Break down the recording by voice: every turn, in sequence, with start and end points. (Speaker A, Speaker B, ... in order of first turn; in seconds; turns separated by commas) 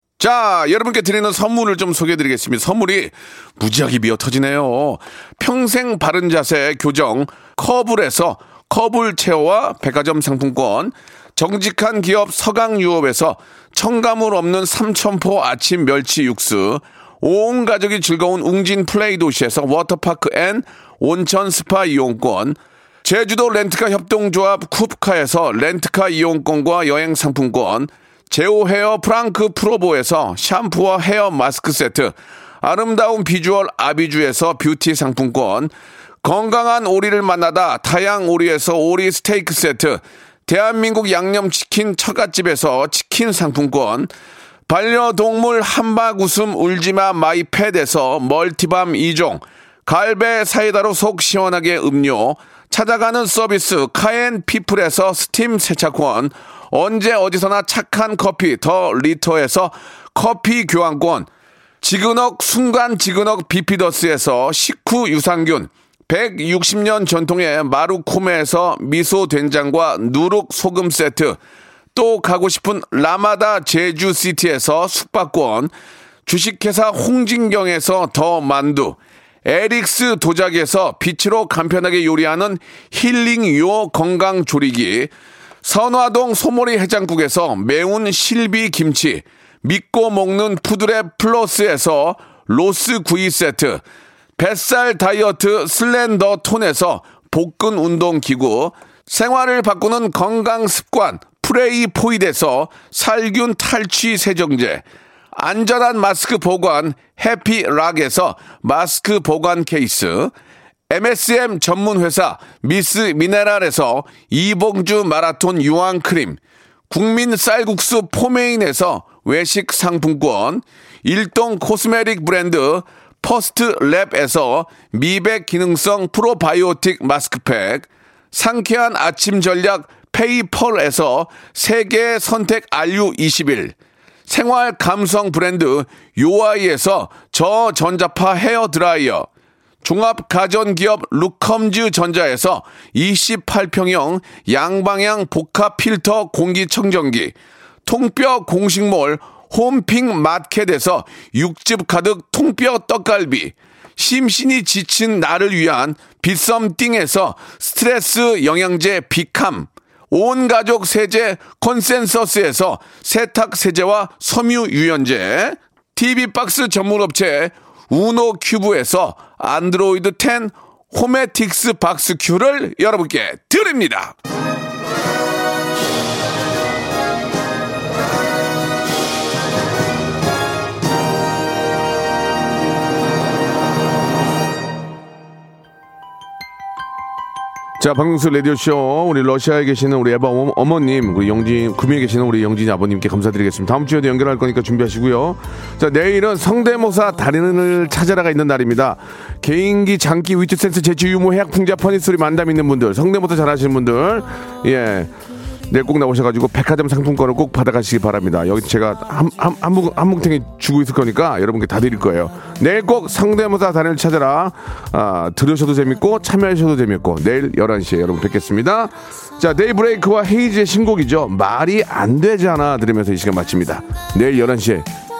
Speaker A: 0.2-44.1, Speaker A: 44.7-61.3, Speaker A: 61.8-71.4, Speaker A: 71.9-75.7, Speaker A: 76.2-85.1, Speaker A: 85.6-93.8, Speaker A: 94.4-110.3, Speaker A: 110.9-116.4, Speaker A: 116.9-133.7, Speaker A: 134.3-139.3, Speaker A: 139.8-147.3, Speaker A: 147.8-174.1, Speaker A: 187.8-205.1, Speaker A: 205.7-224.9